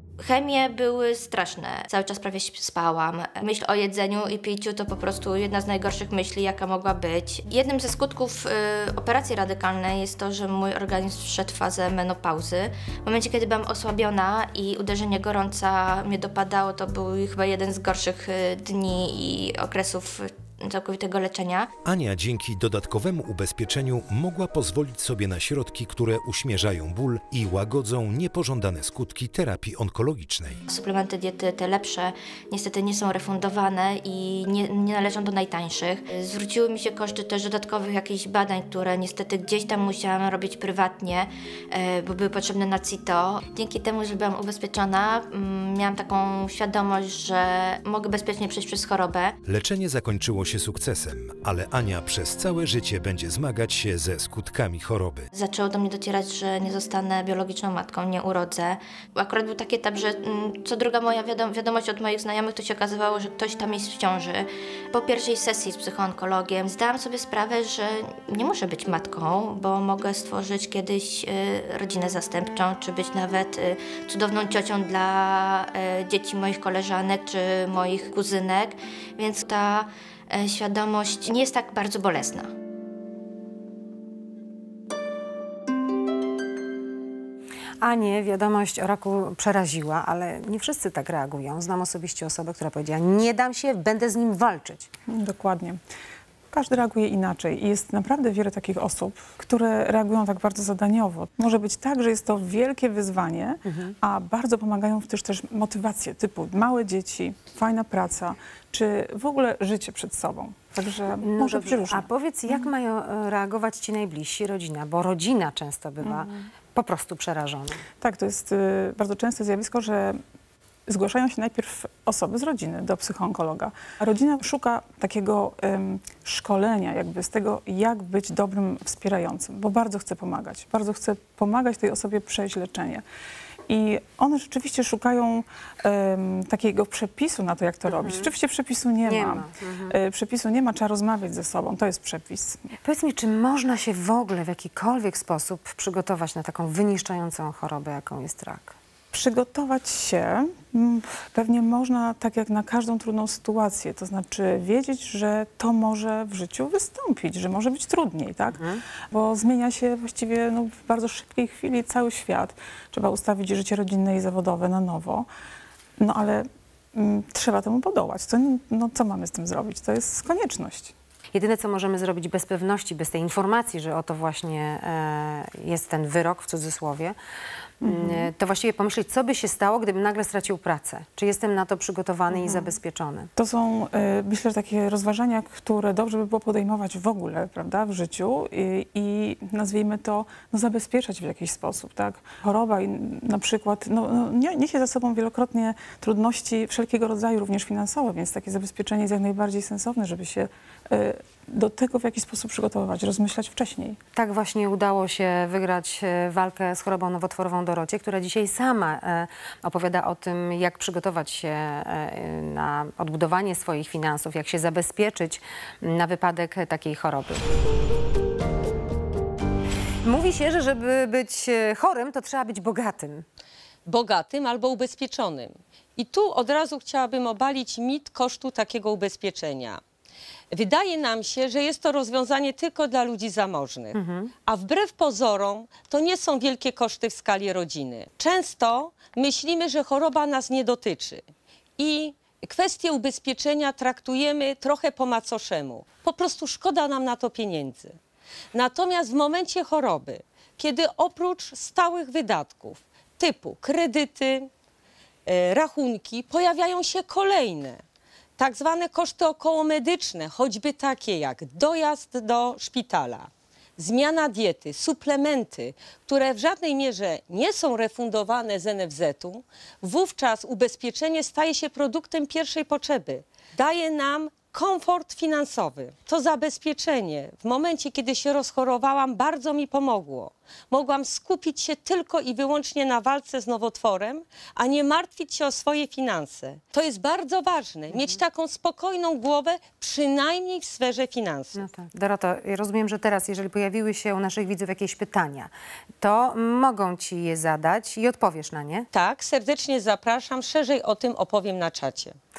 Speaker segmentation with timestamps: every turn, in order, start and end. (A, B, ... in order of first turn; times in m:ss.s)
0:00.2-0:21.7 A
0:21.8-0:30.6 B
0:30.7-0:49.4 A
0:49.4-0:55.3 B
0:55.3-1:22.5 A
1:27.8-1:34.9 C
1:35.1-1:35.8 D
1:36.5-1:52.1 D
1:43.6-1:43.9 C
1:51.2-1:57.8 C
1:58.0-2:00.2 D
2:00.9-2:13.0 D
2:13.7-2:22.6 D
2:17.9-2:18.3 C
2:19.0-2:19.9 C
2:22.8-2:28.8 C
2:29.1-2:38.6 D
2:38.5-2:38.8 C
2:39.1-2:45.3 D
2:46.0-2:50.9 D
2:51.3-2:57.2 C
2:57.8-3:03.3 C
2:57.8-2:58.2 D
3:03.4-3:24.0 D
3:24.1-3:37.4 C
3:40.0-3:43.2 C
3:43.8-3:49.8 E
3:50.5-4:01.2 E
3:53.9-3:54.3 C
4:01.8-4:07.9 E
4:08.5-4:14.5 E
4:15.2-4:17.8 E
4:18.4-4:51.6 E
4:51.5-4:58.9 C
4:58.9-5:02.1 E